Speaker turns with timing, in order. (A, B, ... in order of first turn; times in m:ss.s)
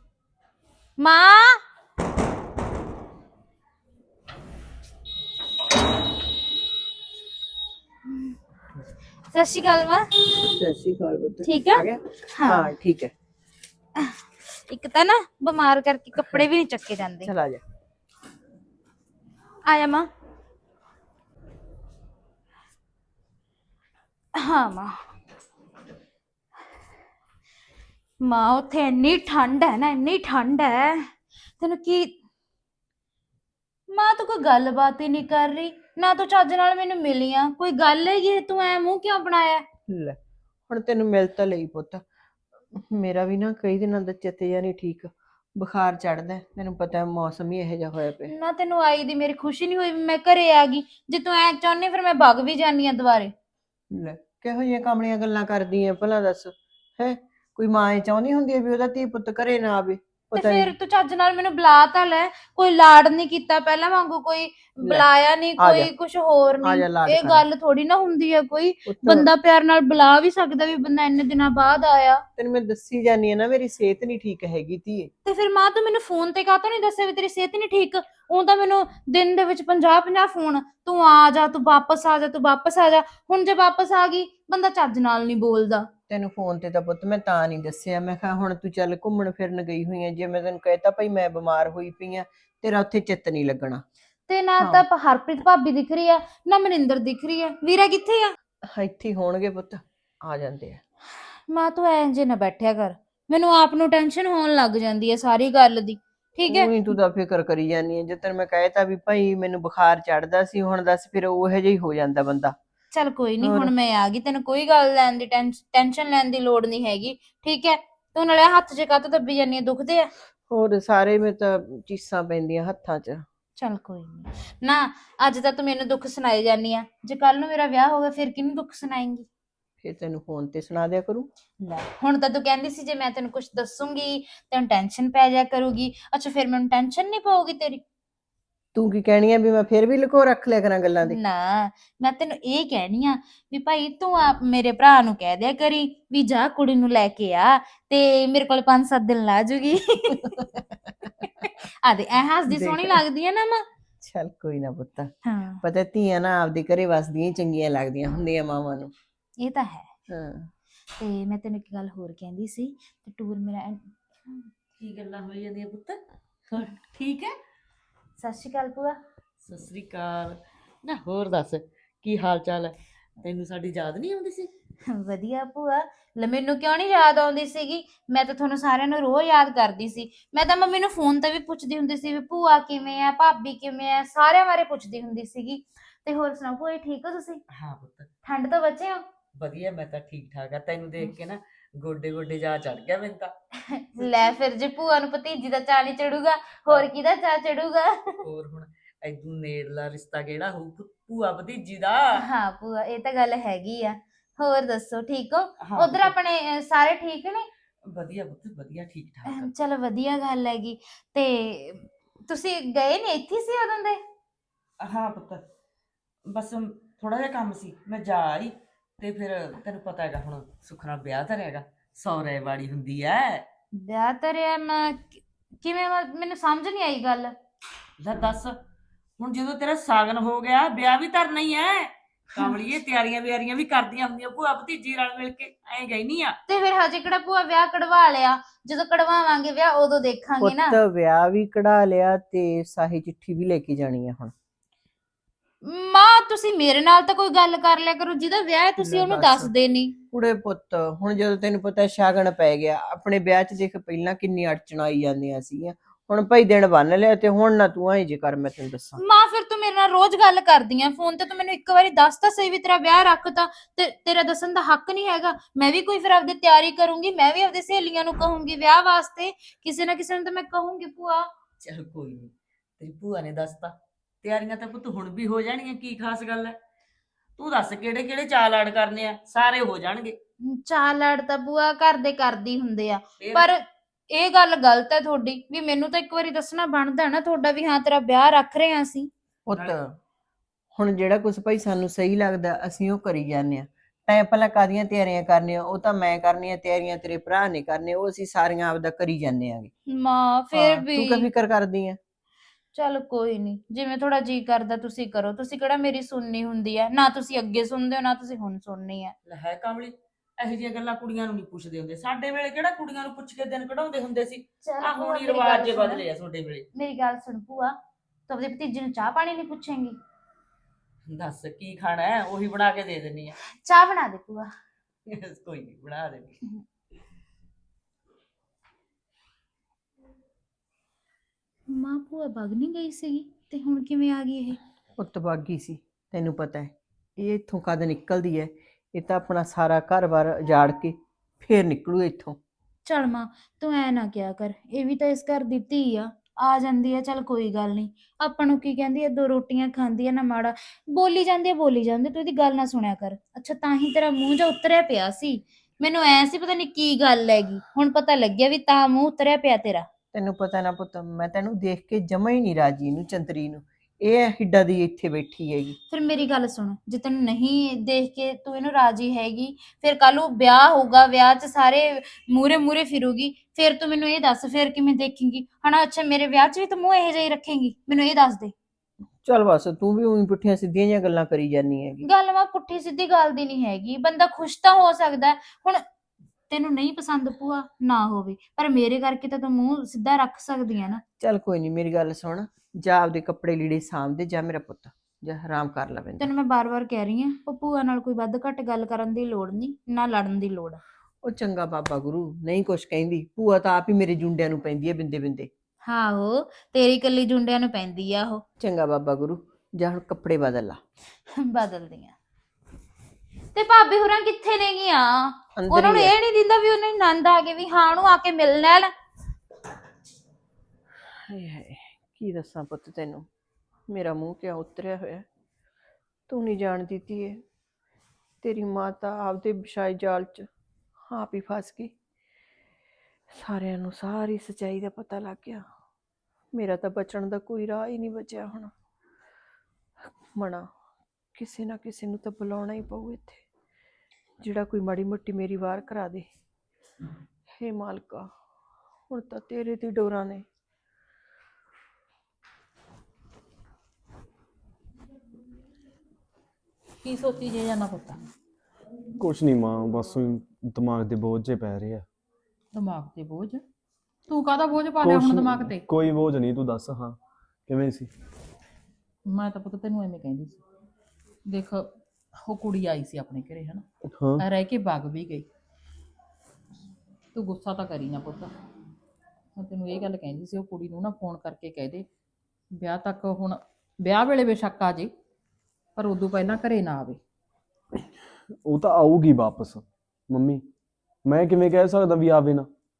0:01.0-0:01.6 A
0:08.1-0:08.4 A
0:09.3-0:10.1 A
0:10.4-0:13.1 B
0:11.4-0:11.8 A
0:12.3-0:12.7 A
0:14.0-0:17.3 A
0:17.2-0:17.6 B
0:19.7-0:20.1 A
0:24.4-0:24.9 A
0:28.2-0:32.1 A
0:33.9-0:39.6 A
0:39.9-0:40.2 B
0:40.7-0:42.0 B
0:42.7-0:48.3 B
0:48.3-0:53.3 A
0:53.9-1:00.7 B
1:00.3-1:12.2 A
1:05.6-1:05.9 B
1:06.6-1:07.4 B
1:08.8-1:09.3 B
1:12.4-1:15.1 B
1:15.2-1:25.9 A
1:26.1-1:33.8 B
1:34.3-1:38.3 A
1:34.6-1:34.8 B
1:38.7-1:40.8 B
1:41.5-1:46.7 A
1:46.5-1:52.5 B
1:52.9-2:00.1 A
1:53.4-1:53.7 B
2:00.5-2:03.2 B
2:03.6-2:09.2 A
2:09.8-2:11.3 B
2:11.6-2:17.8 A
2:18.7-2:21.2 B
2:21.0-2:30.5 A
2:31.2-2:33.6 A
2:32.5-2:33.0 B
2:34.0-2:38.9 B
2:35.2-2:35.6 A
2:39.4-2:39.9 A
2:40.1-2:40.5 B
2:41.0-2:44.5 A
2:44.8-2:46.0 C
2:46.5-2:47.3 C
2:48.2-2:49.0 A
2:49.4-2:54.5 C
2:54.9-3:07.4 A
3:07.5-3:08.1 C
3:08.2-3:09.0 A
3:09.4-3:13.3 C
3:13.6-3:18.2 A
3:18.2-3:22.2 C
3:22.2-3:27.5 A
3:25.6-3:26.1 C
3:27.9-3:29.5 C
3:29.3-3:34.0 A
3:34.8-3:35.4 C
3:36.3-3:43.4 C
3:43.7-3:47.3 A
3:48.0-3:48.6 C
3:49.2-3:56.4 C
3:56.5-4:00.8 A
4:00.4-4:04.3 B
4:05.6-4:09.9 A
4:08.8-4:09.5 B
4:10.1-4:19.0 B
4:19.0-4:31.3 A
4:31.6-4:36.6 C
4:37.4-4:40.2 C
4:40.5-4:49.1 A
4:43.2-4:43.4 C
4:49.5-4:49.9 B
4:50.7-4:59.7 B
4:59.9-5:01.3 A
5:00.5-5:02.0 B
5:02.7-5:09.1 A
5:09.2-5:16.6 C
5:14.6-5:16.0 A
5:16.7-5:17.8 A
5:18.3-5:20.0 A
5:21.1-5:23.4 C
5:23.6-5:24.5 A
5:25.1-5:26.4 C
5:31.7-5:34.6 A
5:35.0-5:42.4 B
5:42.8-5:59.9 A
6:00.1-6:05.8 B
6:05.9-6:18.5 A
6:19.2-6:22.0 B
6:22.0-6:25.8 A
6:26.5-6:31.0 A
6:31.2-6:36.3 B
6:36.2-6:40.8 A
6:41.2-6:45.5 B
6:45.8-6:48.4 A
6:48.6-6:50.8 B
6:51.3-6:52.1 A
6:53.5-6:58.9 A
6:55.6-6:56.1 B
7:01.3-7:03.3 B
7:03.9-7:05.3 B
7:06.3-7:07.4 B
7:08.4-7:10.5 B
7:11.1-7:11.9 B
7:13.3-7:15.7 B
7:16.5-7:18.7 B
7:20.3-7:20.7 B
7:21.3-7:23.4 B
7:24.4-7:26.3 B
7:27.5-7:28.3 B
7:29.1-7:30.4 B
7:37.0-7:38.2 D
7:39.2-7:42.0 E
7:42.7-7:43.6 D
7:44.3-7:45.8 D
7:45.0-7:48.1 E
7:49.2-7:50.6 D
7:51.4-7:53.8 D
7:54.1-7:54.4 E
7:54.4-7:55.5 D
7:57.3-7:58.5 D
7:59.6-8:02.0 D
8:02.7-8:05.1 D
8:06.0-8:07.2 D
8:08.6-8:10.6 E
8:11.2-8:12.7 E